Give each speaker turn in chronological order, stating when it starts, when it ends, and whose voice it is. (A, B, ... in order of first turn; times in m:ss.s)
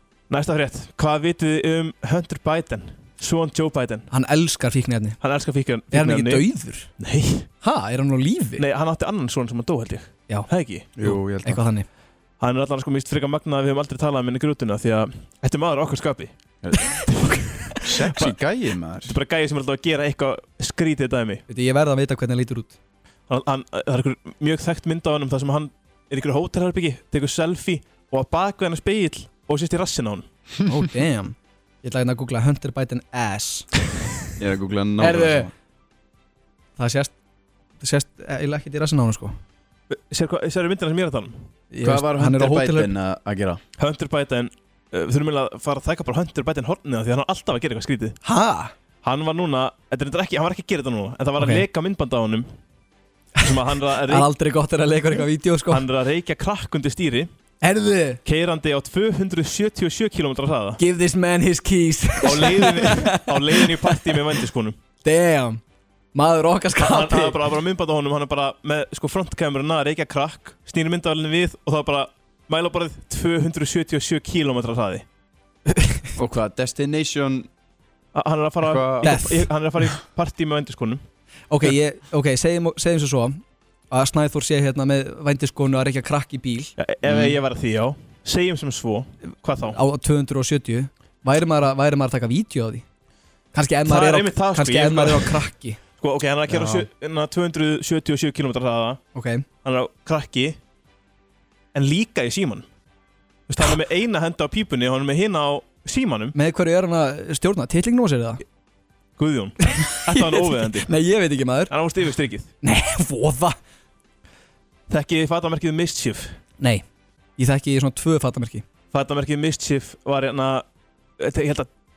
0:00.3-0:04.1 A
0:04.1-0:05.2 B
0:05.2-0:06.5 A
0:05.9-0:06.9 B
0:07.0-0:07.5 A
0:07.6-0:08.6 B
0:08.6-0:10.9 A
0:11.0-0:11.6 C
0:11.0-0:11.9 B
0:12.4-0:16.3 A
0:16.6-0:17.1 C
0:17.0-0:18.4 A
0:17.8-0:19.2 C
0:19.0-0:21.4 A
0:21.5-0:22.8 B
0:23.3-0:30.3 A
0:30.7-0:33.7 B
0:34.4-0:35.5 C
0:35.0-0:35.5 B
0:36.8-0:37.1 B
0:37.8-0:39.4 B
0:39.9-0:41.4 A
0:41.7-0:42.9 B
0:41.8-0:43.6 C
0:43.8-0:48.2 A
0:48.2-0:48.7 B
0:49.0-0:52.5 A
0:51.4-0:51.6 B
0:53.4-0:54.3 A
0:54.1-0:55.8 B
0:55.7-0:57.3 A
0:57.6-0:58.2 B
0:58.2-1:00.8 A
1:00.8-1:04.3 B
1:02.2-1:04.8 A
1:05.0-1:05.6 B
1:06.1-1:07.4 B
1:06.8-1:15.1 A
1:15.8-1:16.0 B
1:16.2-1:17.5 C
1:18.1-1:21.0 A
1:18.6-1:19.2 C
1:19.0-1:19.5 B
1:21.5-1:26.7 B
1:26.8-1:29.8 A
1:27.0-1:27.4 C
1:29.7-1:32.8 B
1:33.5-1:35.8 B
1:33.9-1:35.4 A
1:36.0-1:39.0 A
1:36.5-1:36.9 C
1:39.2-1:39.4 B
1:39.6-1:40.6 A
1:41.7-1:42.7 A
1:43.5-1:46.4 A
1:46.4-1:48.4 B
1:49.2-1:50.9 A
1:49.6-1:51.7 B
1:51.7-1:52.5 A
1:52.6-1:53.6 B
1:54.9-1:56.4 A
1:57.4-1:58.6 B
1:58.9-2:00.6 A
2:01.2-2:01.7 A